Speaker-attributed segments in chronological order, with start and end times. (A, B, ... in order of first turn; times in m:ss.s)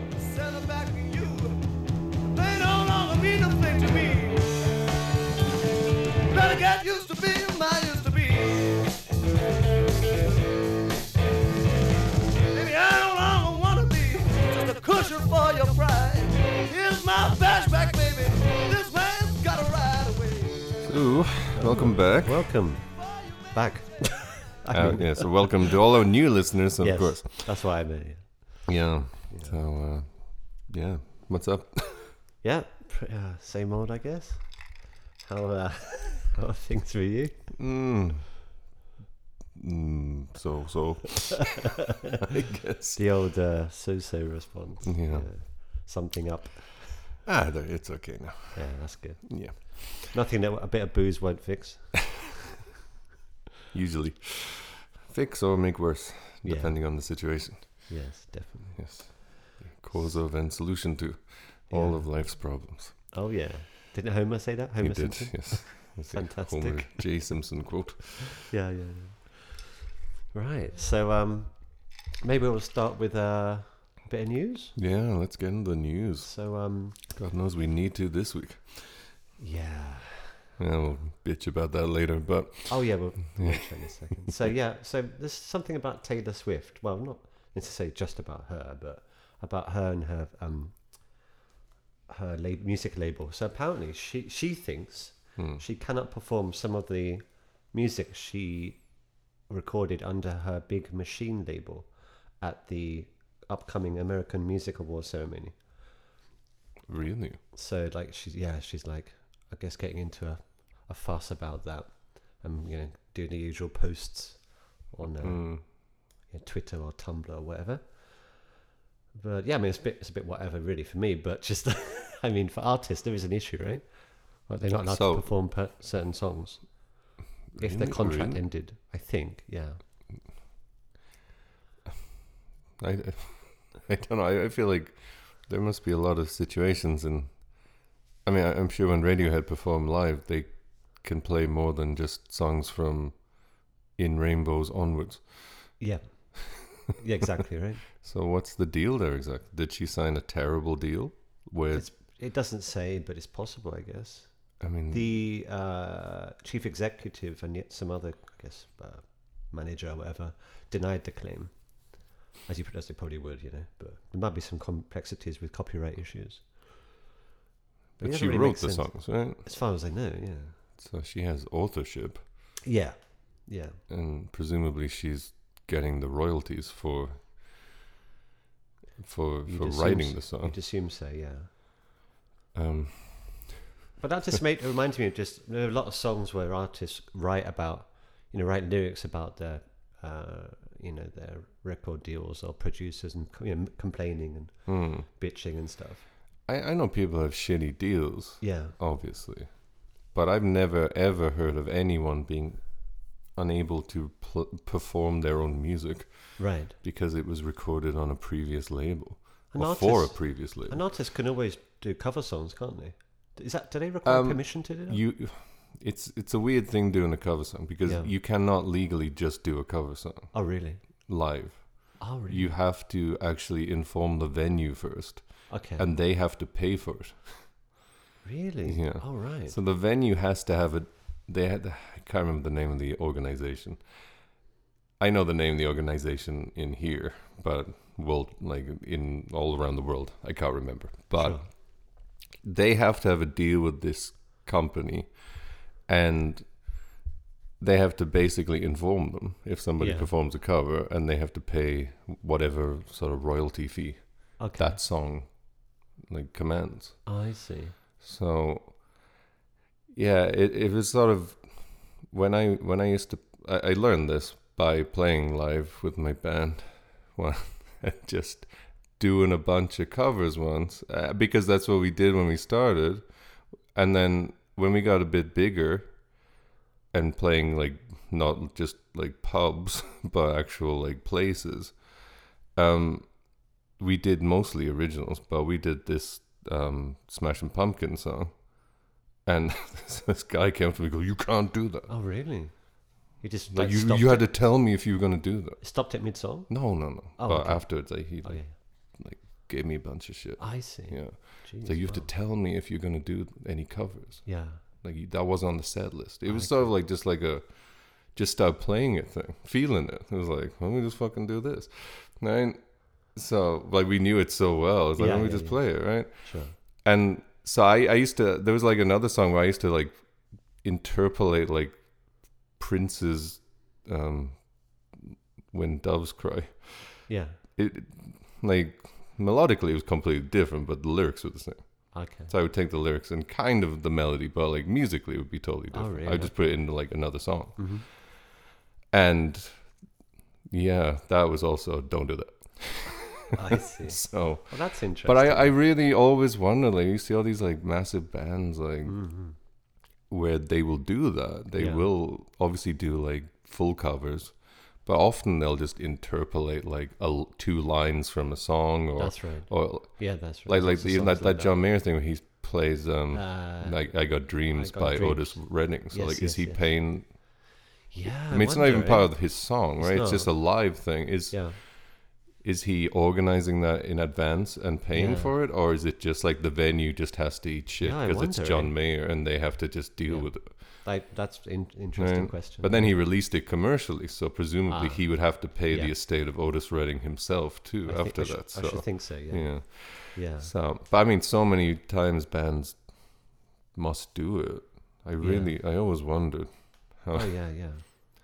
0:00.2-0:01.5 A
0:02.3-0:04.4 A
0:06.3-0:08.6 A
0:12.5-0:20.7 A
0:20.8-0:22.5 B
0:21.5-0:25.7 C
0:24.7-0:27.5 B
0:26.8-0:28.7 C
0:28.6-0:32.2 B
0:29.3-0:29.6 C
0:32.4-0:37.5 C
0:37.5-0:38.3 B
0:39.5-0:41.7 B
0:42.3-0:43.0 B
0:42.9-0:47.1 C
0:44.8-0:45.3 B
0:47.2-0:50.1 B
0:48.5-0:52.3 C
0:53.7-0:58.0 B
0:56.4-0:57.4 C
0:57.9-0:59.4 C
0:58.7-1:03.0 B
0:59.9-1:00.2 C
1:01.7-1:07.4 C
1:04.8-1:08.4 B
1:08.5-1:09.8 C
1:10.3-1:14.8 C
1:14.8-1:19.1 B
1:16.2-1:17.0 C
1:19.4-1:20.4 C
1:20.6-1:23.9 B
1:22.7-1:31.3 C
1:32.1-1:45.6 C
1:35.4-1:35.6 B
1:46.9-1:47.4 B
1:47.5-1:58.4 C
1:55.2-1:55.7 B
1:59.1-2:09.8 C
2:04.9-2:05.3 B
2:07.5-2:08.4 B
2:12.8-2:25.7 B
2:25.8-2:27.8 C
2:27.9-2:31.9 B
2:31.7-2:46.7 C
2:34.6-2:35.2 B
2:48.0-2:49.4 B
2:48.0-2:50.6 C
2:50.8-2:52.2 B
2:52.6-2:53.8 C
2:53.9-2:57.6 B
2:59.0-3:00.6 B
2:59.4-3:01.5 C
3:02.5-3:03.5 B
3:04.0-3:16.0 C
3:14.6-3:15.1 B
3:16.4-3:30.8 B
3:18.4-3:18.7 C
3:26.4-3:26.8 C
3:29.5-3:35.0 C
3:34.0-3:47.6 B
3:37.8-3:38.1 C
3:40.3-3:41.1 C
3:42.0-3:42.6 C
3:45.5-3:45.9 C
3:48.2-3:49.5 C
3:48.7-3:53.8 B
3:55.0-4:06.8 B
4:01.2-4:01.4 C
4:07.6-4:17.1 B
4:09.8-4:10.1 C
4:14.4-4:14.8 C
4:17.0-4:17.8 C
4:18.0-4:19.0 B
4:19.9-4:33.1 B
4:33.7-4:36.2 B
4:36.9-4:42.0 B
4:42.5-4:51.9 B
4:51.9-4:54.3 C
4:53.5-4:55.8 B
4:55.6-4:58.5 C
4:56.5-5:38.2 B
5:00.4-5:02.1 C
5:04.2-5:04.6 C
5:06.2-5:06.7 C
5:15.0-5:16.5 C
5:27.1-5:27.4 C
5:31.9-5:32.3 C
5:35.7-5:36.9 C
5:37.6-5:37.8 C
5:38.9-5:39.8 B
5:40.5-5:49.0 B
5:43.3-5:45.5 C
5:48.8-5:49.4 C
5:50.1-6:07.1 B
5:51.6-5:51.9 C
5:59.0-6:01.6 C
6:03.1-6:07.2 C
6:07.9-6:11.6 C
6:08.0-6:20.5 B
6:14.9-6:15.3 C
6:17.8-6:18.7 C
6:20.0-6:23.0 C
6:22.0-6:37.3 B
6:24.7-6:25.9 C
6:27.8-6:30.5 C
6:35.2-6:35.5 C
6:37.1-6:37.8 C